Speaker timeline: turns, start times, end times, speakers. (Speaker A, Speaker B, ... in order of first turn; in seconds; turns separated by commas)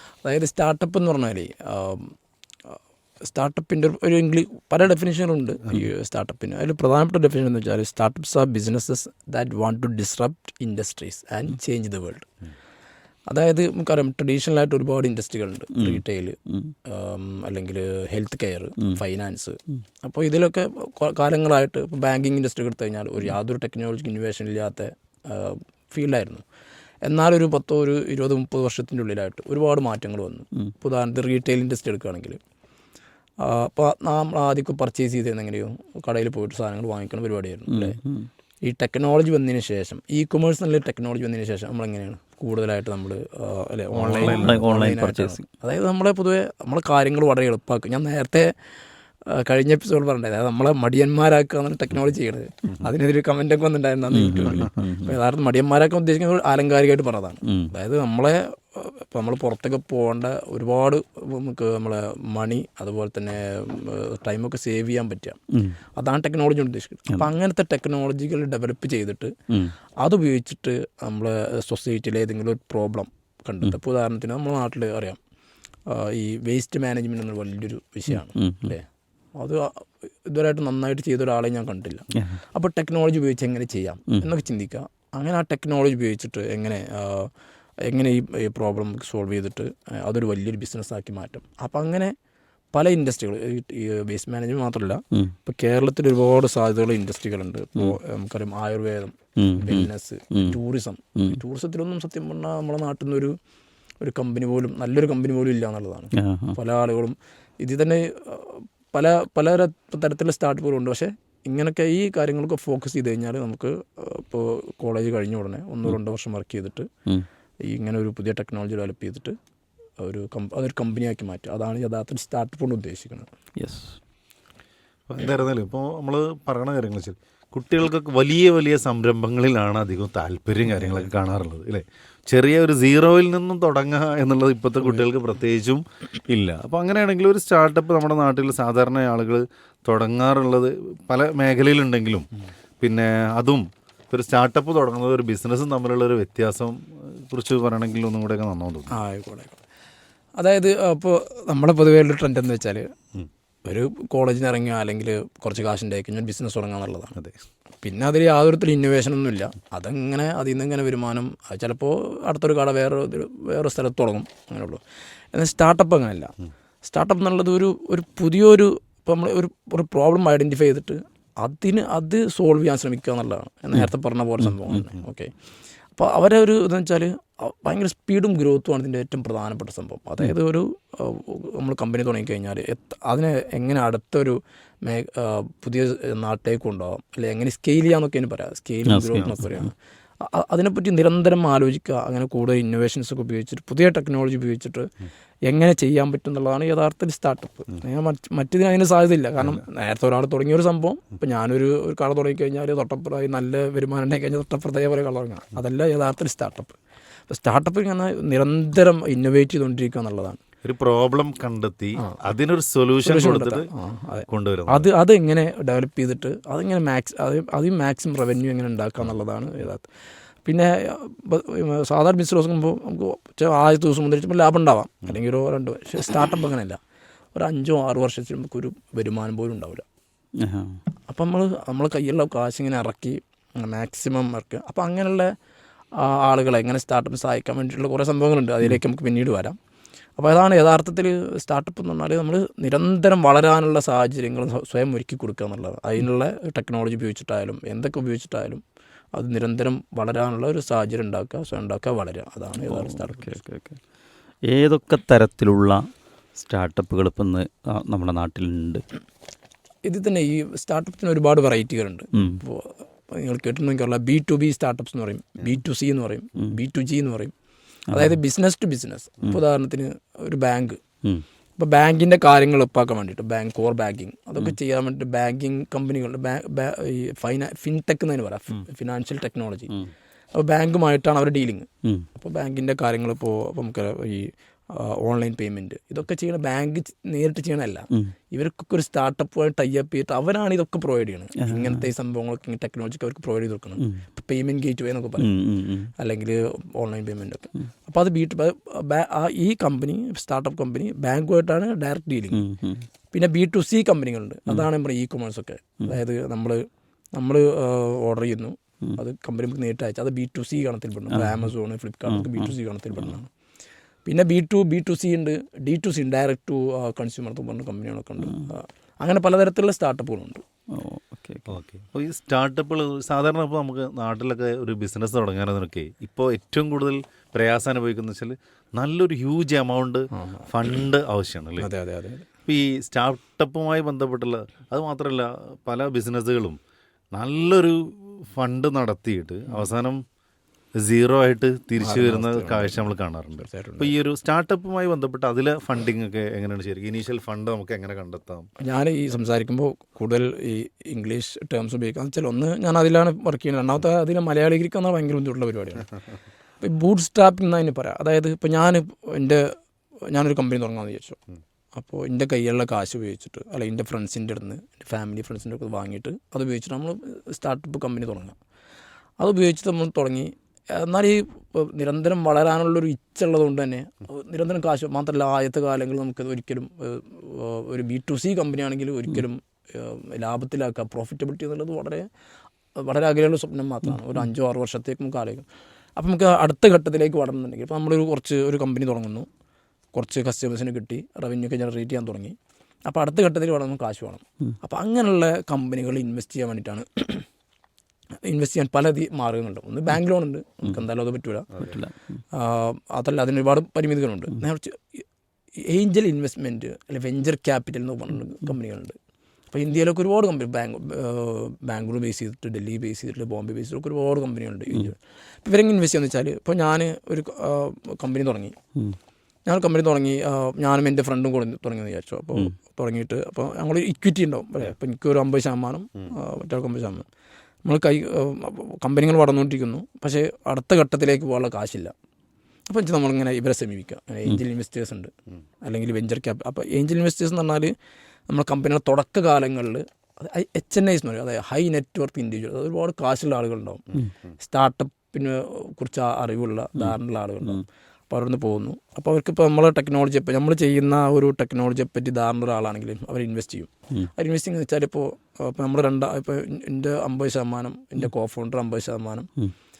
Speaker A: 0.2-2.1, Speaker A: 2.7-12.3, Speaker A: 13.3-26.4, Speaker B: 15.7-16.7, Speaker A: 27.0-32.4, Speaker A: 33.4-38.0, Speaker B: 37.7-38.3, Speaker A: 38.6-48.5, Speaker C: 43.9-44.6, Speaker B: 44.2-45.4, Speaker A: 49.2-65.4, Speaker B: 54.1-55.2, Speaker B: 57.4-57.7, Speaker B: 65.5-65.8, Speaker A: 66.0-69.3, Speaker B: 69.5-69.7, Speaker A: 70.0-75.2, Speaker A: 75.9-87.3, Speaker B: 78.1-78.7, Speaker B: 82.1-82.4, Speaker A: 87.8-92.1, Speaker A: 92.7-103.4, Speaker B: 99.4-100.6, Speaker A: 104.0-116.9, Speaker B: 106.1-106.6, Speaker A: 117.6-119.4, Speaker A: 120.0-123.3, Speaker B: 123.6-124.0, Speaker C: 125.1-142.3, Speaker C: 142.8-148.9, Speaker A: 148.9-149.6, Speaker A: 150.4-152.9, Speaker A: 153.6-157.2, Speaker A: 157.8-164.8, Speaker A: 165.3-166.3, Speaker A: 166.8-175.3, Speaker B: 174.4-174.9, Speaker A: 175.9-194.9, Speaker B: 188.9-189.7, Speaker A: 195.4-206.7, Speaker A: 207.3-210.4, Speaker C: 210.6-213.7, Speaker A: 213.0-219.8, Speaker C: 214.3-214.9, Speaker A: 220.4-226.8, Speaker A: 227.3-229.8, Speaker B: 230.4-230.8, Speaker A: 231.1-235.3, Speaker A: 235.9-239.6, Speaker A: 240.2-248.6, Speaker A: 249.1-253.3, Speaker B: 252.7-253.8, Speaker B: 254.5-255.8, Speaker B: 256.3-258.8, Speaker A: 259.8-267.3, Speaker B: 262.1-262.4, Speaker B: 267.9-268.2, Speaker A: 267.9-270.8, Speaker A: 271.6-279.8, Speaker A: 280.3-295.3, Speaker B: 291.4-291.9, Speaker B: 295.2-295.9, Speaker A: 296.0-302.4, Speaker B: 302.3-302.8, Speaker A: 303.1-313.3, Speaker B: 311.1-311.5, Speaker B: 312.1-313.1, Speaker A: 314.0-320.4, Speaker B: 318.2-318.5, Speaker B: 320.7-321.6, Speaker C: 321.5-331.7, Speaker A: 330.1-330.5, Speaker A: 331.6-332.2, Speaker C: 332.5-336.6, Speaker C: 337.1-340.0, Speaker C: 340.8-348.5, Speaker A: 341.8-343.9, Speaker A: 348.6-355.9, Speaker A: 356.6-361.2, Speaker A: 361.7-368.4, Speaker A: 369.2-382.1, Speaker A: 382.8-385.4, Speaker A: 385.9-389.3, Speaker A: 389.9-397.3, Speaker A: 398.2-401.5, Speaker B: 401.6-402.2, Speaker A: 402.3-405.0, Speaker A: 405.6-409.0, Speaker A: 409.5-418.6, Speaker A: 419.4-427.1, Speaker A: 427.6-431.9, Speaker A: 432.7-437.7, Speaker A: 438.3-459.3, Speaker B: 446.8-447.6